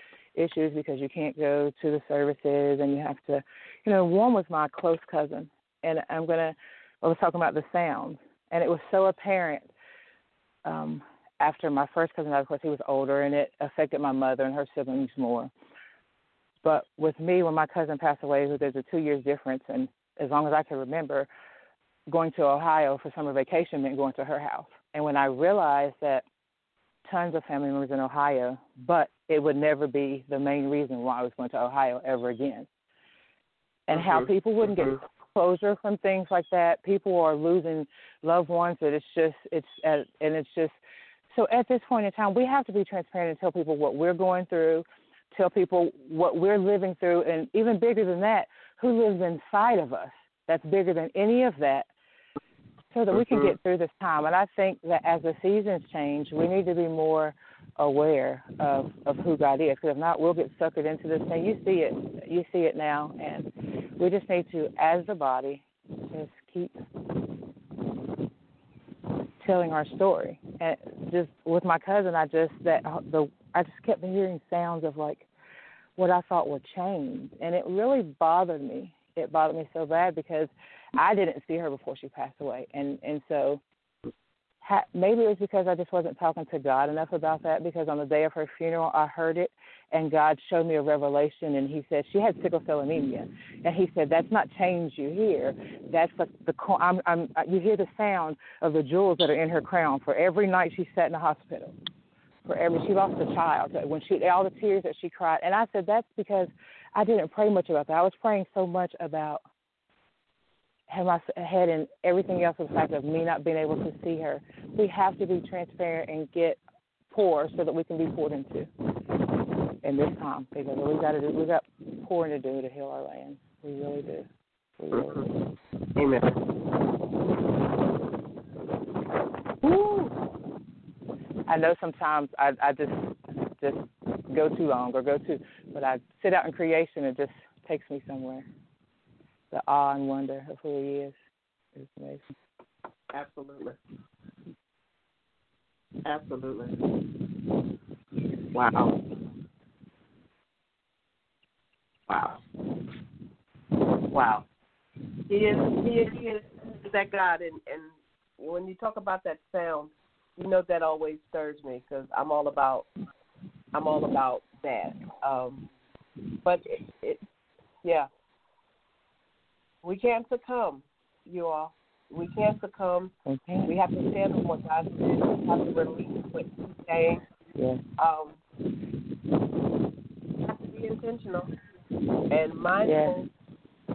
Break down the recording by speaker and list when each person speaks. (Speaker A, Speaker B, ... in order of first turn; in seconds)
Speaker A: 0.3-9.7, 10.6-15.5, 16.6-21.3, 22.1-26.2, 27.0-32.7, 33.9-40.8, 41.3-51.9, 52.9-66.7, 69.4-75.3, 76.0-83.6, 84.6-101.7, 102.4-109.4, 110.9-118.7, 119.8-125.2, 131.5-138.5, 139.5-141.2, 141.7-142.3, 173.2-173.7, 177.5-177.8, 182.8-183.2
Speaker B: 33.9-34.2, 124.9-125.3, 126.0-126.4, 129.6-130.1, 143.1-143.8, 146.0-146.8, 148.5-148.9, 152.1-152.4, 154.1-154.4, 155.3-162.9, 163.7-165.7, 166.4-167.2, 169.8-173.1, 173.6-177.2, 178.0-178.4, 180.4-181.5, 182.3-183.3